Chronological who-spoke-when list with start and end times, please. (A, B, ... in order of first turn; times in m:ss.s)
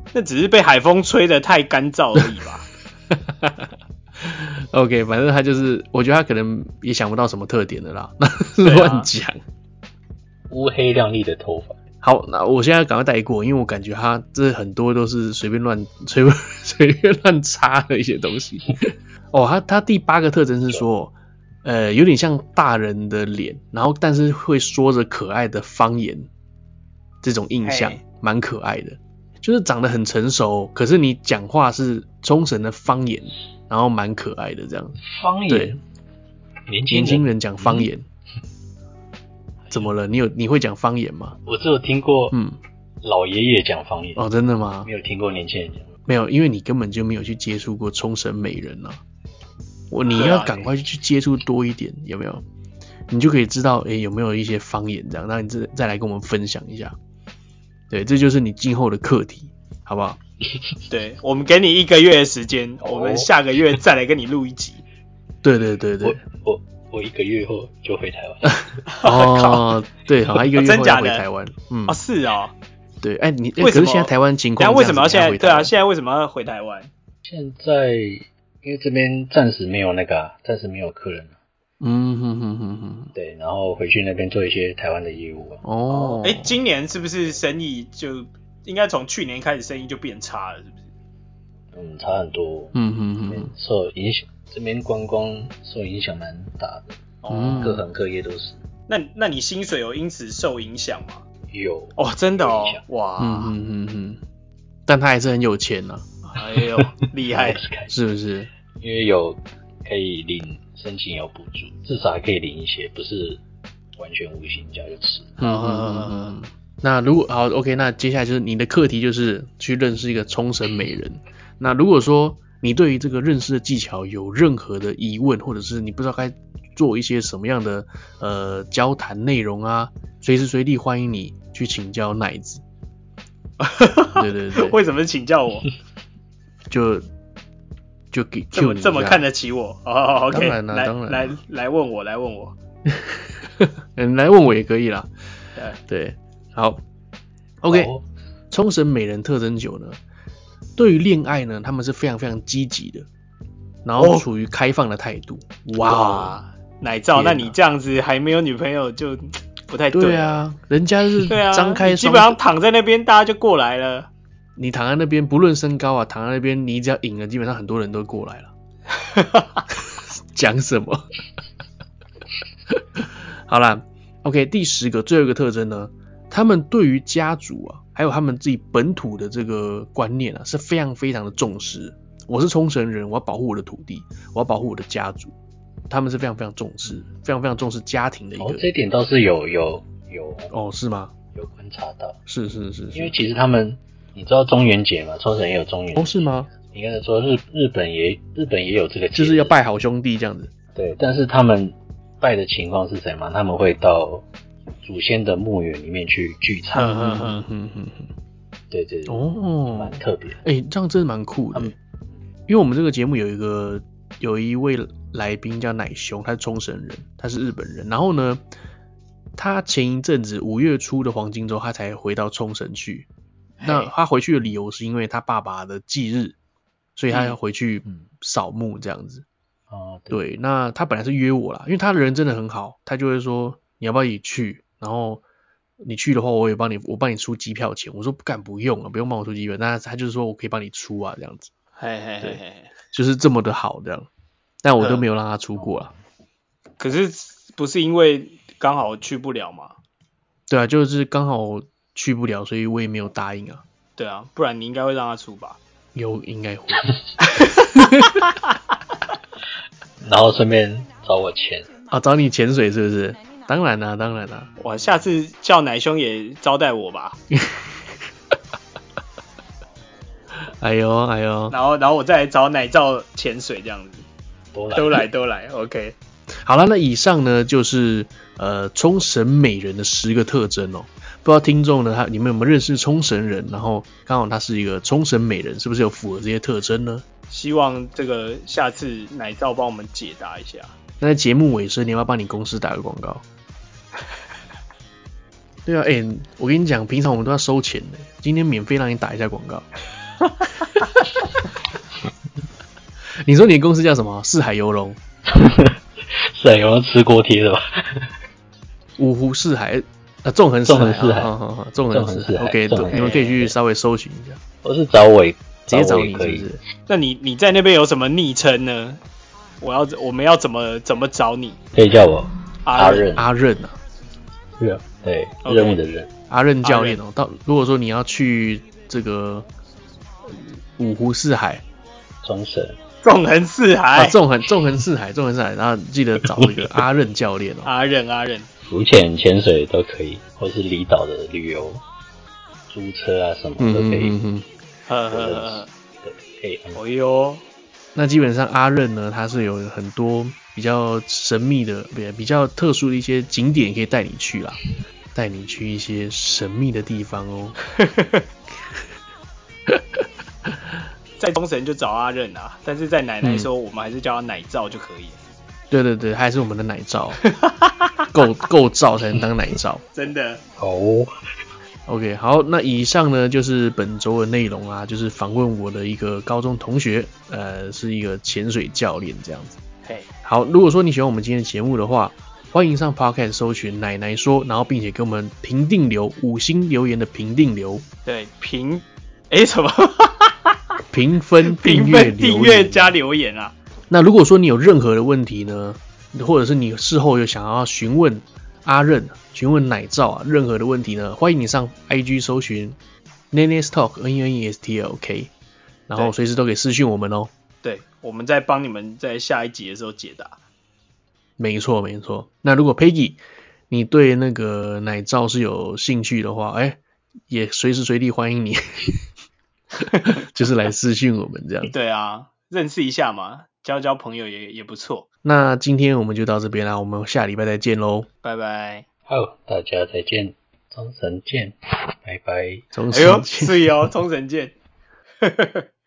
0:00.1-0:02.7 A
0:03.1-0:09.4 B
0:08.6-0:09.1 A
0:10.5-0:11.8 C
0:12.0-0:26.3 B
0:27.2-0:35.8 B
0:27.6-0:28.0 A
0:35.0-0:35.8 C
0:36.7-0:37.9 C
0:36.9-0:38.0 B
0:39.7-0:41.4 B
0:41.4-0:42.4 C
0:42.3-0:42.6 B
0:43.0-0:44.3 C
0:44.2-0:44.9 B
0:44.8-0:45.9 C
0:46.1-0:49.0 B
0:49.9-0:52.4 B
0:50.1-0:50.7 A
0:53.1-0:57.0 B
0:57.9-1:00.2 B
1:00.9-1:04.8 A
1:02.8-1:03.3 C
1:05.4-1:06.2 B
1:06.0-1:08.8 C
1:08.4-1:12.0 B
1:08.9-1:09.7 A
1:10.4-1:11.2 A
1:11.9-1:12.5 A
1:13.0-1:15.7 B
1:13.6-1:16.9 A
1:17.2-1:21.4 C
1:21.8-1:23.1 B
1:23.1-1:25.6 C
1:25.6-1:26.6 B
1:25.9-1:30.9 A
1:31.7-1:32.7 C
1:32.7-1:33.5 B
1:33.2-1:37.0 C
1:37.2-1:37.7 A
1:37.3-1:37.8 B
1:37.6-1:38.6 C
1:38.9-1:41.2 A
1:41.5-1:42.8 C
1:42.0-1:43.6 A
1:43.2-1:44.2 B
1:44.9-1:46.4 B
1:46.4-1:47.6 A
1:47.2-1:47.9 C
1:47.9-1:48.5 B
1:48.8-1:53.4 C
1:53.9-1:55.4 C
1:55.4-2:12.6 B
1:55.4-1:56.4 A
2:13.6-2:15.7 A
2:14.1-2:14.8 B
2:16.7-2:17.0 B
2:18.1-2:19.2 B
2:18.5-2:22.5 A
2:20.3-2:21.3 B
2:22.9-2:25.1 B
2:25.9-2:26.8 B
2:27.6-2:27.9 B
2:27.7-2:28.0 C
2:28.5-2:30.0 B
2:30.8-2:33.1 B
2:33.8-2:36.4 B
2:34.0-2:34.2 A
2:35.8-2:40.4 A
2:37.1-2:37.5 B
2:39.9-2:42.4 B
2:41.2-2:44.1 A
2:44.6-2:48.5 B
2:49.0-2:49.6 A
2:50.3-2:51.0 B
2:52.7-3:05.3 B
3:05.9-3:08.6 B
3:08.4-3:10.5 C
3:10.5-3:11.1 B
3:11.3-3:12.2 C
3:12.3-3:13.1 B
3:12.9-3:19.5 C
3:15.9-3:16.5 B
3:19.1-3:20.5 B
3:20.7-3:24.3 C
3:24.8-3:27.0 C
3:26.7-3:27.4 A
3:26.8-3:28.1 B
3:28.7-3:30.4 C
3:29.1-3:31.7 B
3:32.5-3:38.4 B
3:39.4-3:43.1 B
3:43.6-3:43.9 A
3:43.6-3:46.4 B
3:47.0-3:49.2 B
3:47.1-3:47.4 A
3:49.7-3:50.2 C
3:50.1-3:55.2 B
3:55.8-4:01.5 B
4:01.8-4:02.7 A
4:02.9-4:04.1 B
4:04.6-4:05.9 B
4:04.8-4:05.0 A
4:06.8-4:09.7 A
4:10.5-4:13.6 B
4:14.0-4:15.6 A
4:15.9-4:18.2 B
4:17.2-4:18.1 A
4:20.0-4:21.7 C
4:21.9-4:24.5 B
4:24.6-4:27.2 A
4:27.3-4:27.8 B
4:30.6-4:31.6 B
4:31.5-4:34.0 A
4:34.5-4:35.1 C
4:34.7-4:36.0 A
4:36.4-4:47.0 B
4:47.3-4:50.7 A
4:51.0-4:53.2 B
4:55.6-4:59.7 B
5:03.2-5:05.0 B
5:05.3-5:08.1 C
5:09.0-5:14.4 B
5:10.6-5:11.3 C
5:11.9-5:13.5 C
5:14.6-5:16.5 C
5:15.7-5:16.6 B
5:16.9-5:19.0 A
5:19.6-5:21.6 A
5:21.7-5:23.3 C
5:22.6-5:23.1 A
5:23.1-5:23.8 B
5:24.6-5:26.1 C
5:25.4-5:25.8 A
5:26.3-5:29.5 B
5:26.6-5:27.0 A
5:30.3-5:31.6 B
5:32.2-5:32.8 C
5:33.0-5:34.2 A
5:33.9-5:37.7 B
5:36.4-5:36.7 C
5:37.6-5:38.5 A
5:38.6-5:41.8 C
5:42.7-5:44.1 C
5:43.6-5:44.4 B
5:44.9-5:45.7 A
5:45.1-5:46.8 C
5:46.7-5:47.4 A
5:47.9-5:54.6 B
5:55.1-5:57.6 B
5:57.8-5:58.2 A
6:01.2-6:05.2 A
6:03.2-6:03.5 B
6:05.7-6:07.2 B
6:07.2-6:08.0 A
6:08.1-6:09.8 B
6:09.9-6:10.4 A
6:10.6-6:11.1 C
6:11.9-6:19.6 B
6:20.2-6:27.8 B
6:28.0-6:30.6 A
6:30.9-6:33.0 B
6:31.4-6:33.5 A
6:33.9-6:42.8 B
6:43.3-6:45.3 B
6:45.9-6:47.3 B
6:47.6-6:50.4 A
6:51.4-6:59.0 B
7:00.0-7:01.7 B
7:01.7-7:05.1 A
7:05.2-7:08.1 B
7:08.2-7:08.8 A
7:09.0-7:12.7 C
7:12.7-7:13.7 B
7:12.9-7:14.5 A
7:15.2-7:15.6 A